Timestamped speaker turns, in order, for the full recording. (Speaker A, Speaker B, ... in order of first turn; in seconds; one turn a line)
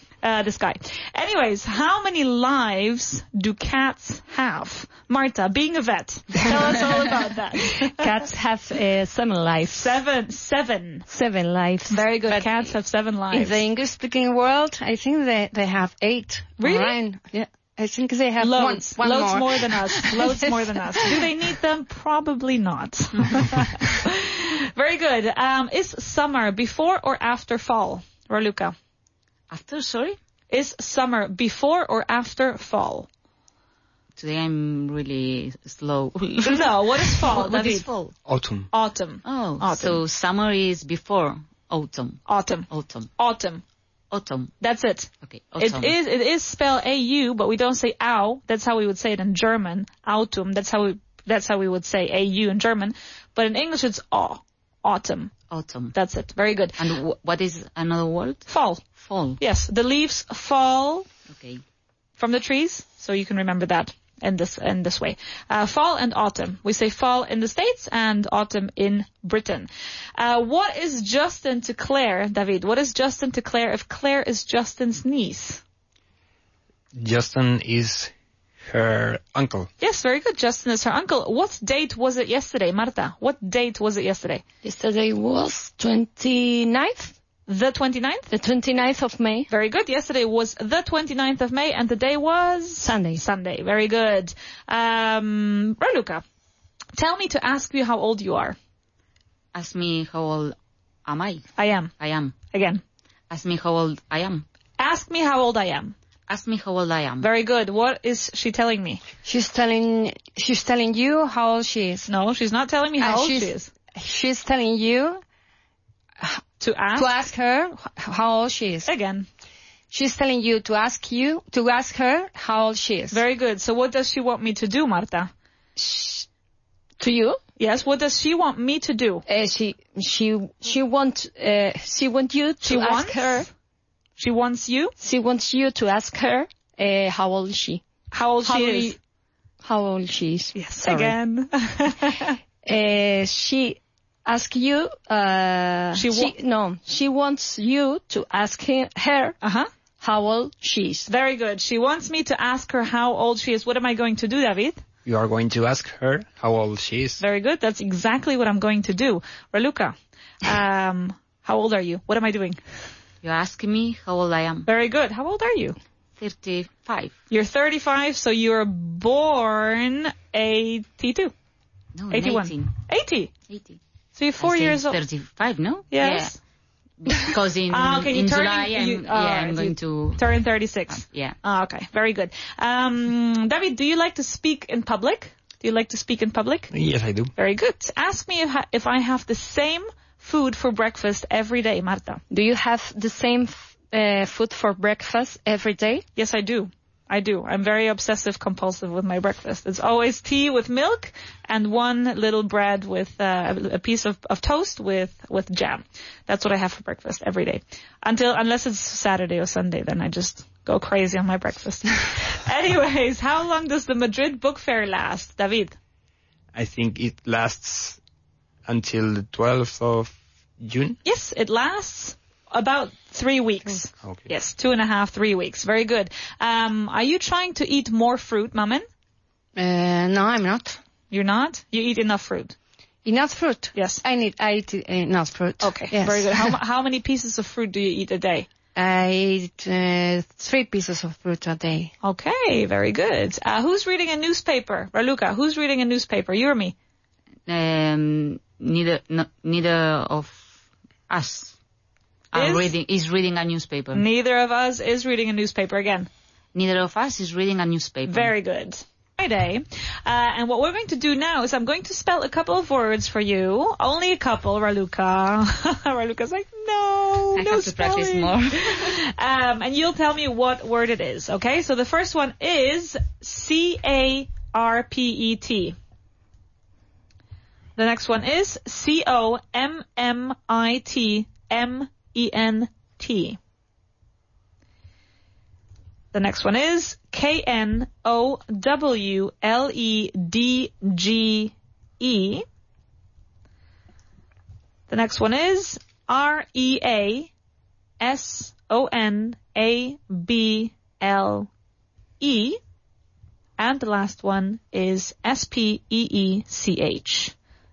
Speaker A: 0.2-8.1
Speaker B: 7.9-10.0
Speaker A: 9.7-11.1
Speaker B: 11.1-12.1
Speaker A: 11.9-13.6
Speaker C: 13.3-21.1
Speaker A: 16.6-17.0
Speaker A: 18.4-28.7
Speaker D: 29.5-30.2
Speaker A: 30.5-33.1
Speaker D: 34.1-38.1
Speaker A: 36.4-37.9
Speaker E: 38.2-38.7
Speaker A: 38.7-40.0
Speaker D: 39.2-43.1
Speaker A: 42.3-43.6
Speaker D: 44.1-44.5
Speaker A: 44.6-55.3
Speaker D: 45.2-45.9
Speaker D: 55.5-55.9
Speaker A: 55.9-56.8
Speaker D: 56.8-59.4
Speaker A: 58.5-58.8
Speaker A: 59.4-61.1
Speaker D: 61.3-61.6
Speaker A: 62.2-75.6
Speaker E: 76.9-79.7
Speaker A: 79.8-84.4
Speaker B: 84.6-87.1
Speaker A: 87.5-88.3
Speaker B: 88.3-89.5
Speaker A: 89.5-96.2
Speaker B: 92.8-93.2
Speaker A: 97.0-98.5
Speaker D: 99.5-100.5
Speaker D: 101.0-101.5
Speaker A: 101.6-101.9
Speaker D: 102.0-102.3
Speaker A: 102.5-102.8
Speaker D: 103.3-104.4
Speaker A: 104.8-105.9
Speaker D: 106.3-107.3
Speaker A: 107.2-109.0
Speaker C: 109.2-112.1
Speaker A: 112.1-113.7
Speaker C: 113.0-115.2
Speaker A: 116.6-117.1
Speaker C: 116.9-118.9
Speaker A: 118.8-119.3
Speaker C: 119.9-123.2
Speaker A: 123.1-125.3
Speaker B: 125.8-126.2
Speaker B: 127.0-127.4
Speaker A: 127.6-129.2
Speaker B: 129.3-133.5
Speaker A: 132.6-133.5
Speaker A: 134.2-134.9
Speaker B: 135.0-137.8
Speaker A: 138.1-138.9
Speaker B: 138.4-138.9
Speaker B: 139.6-141.2
Speaker A: 140.5-142.3
Speaker B: 142.7-149.4
Speaker A: 145.9-146.3
Speaker A: 149.4-149.7
Speaker B: 150.0-151.1
Speaker A: 151.1-154.8
Speaker E: 155.0-157.2
Speaker A: 157.2-162.6
Speaker D: 163.2-164.7
Speaker A: 164.7-165.8
Speaker D: 166.2-167.1
Speaker A: 167.3-171.3
Speaker D: 171.9-172.7
Speaker A: 172.1-173.3
Speaker D: 173.5-173.8
Speaker A: 174.2-175.0
Speaker D: 174.4-176.4
Speaker A: 175.9-176.3
Speaker D: 177.0-181.4
Speaker A: 177.7-186.7
Speaker E: 186.7-187.3
Speaker A: 187.3-192.2
Speaker B: 192.3-196.0
Speaker A: 196.2-215.7
Speaker E: 216.5-218.0
Speaker E: 218.7-221.0
Speaker A: 221.0-228.8
Speaker E: 224.0-224.3
Speaker C: 229.6-230.8
Speaker A: 231.1-232.5
Speaker C: 233.0-236.5
Speaker A: 233.7-234.0
Speaker A: 235.6-238.5
Speaker C: 238.7-241.9
Speaker A: 242.0-246.7
Speaker D: 247.5-250.5
Speaker D: 251.1-251.6
Speaker D: 252.3-254.0
Speaker A: 252.3-252.7
Speaker A: 253.9-256.1
Speaker D: 256.5-258.3
Speaker A: 258.1-275.8
Speaker D: 267.4-268.9
Speaker A: 277.8-283.4
Speaker A: 286.1-292.4
Speaker A: 294.9-297.3
Speaker A: 298.0-301.5
Speaker A: 302.2-302.6
Speaker A: 303.6-307.3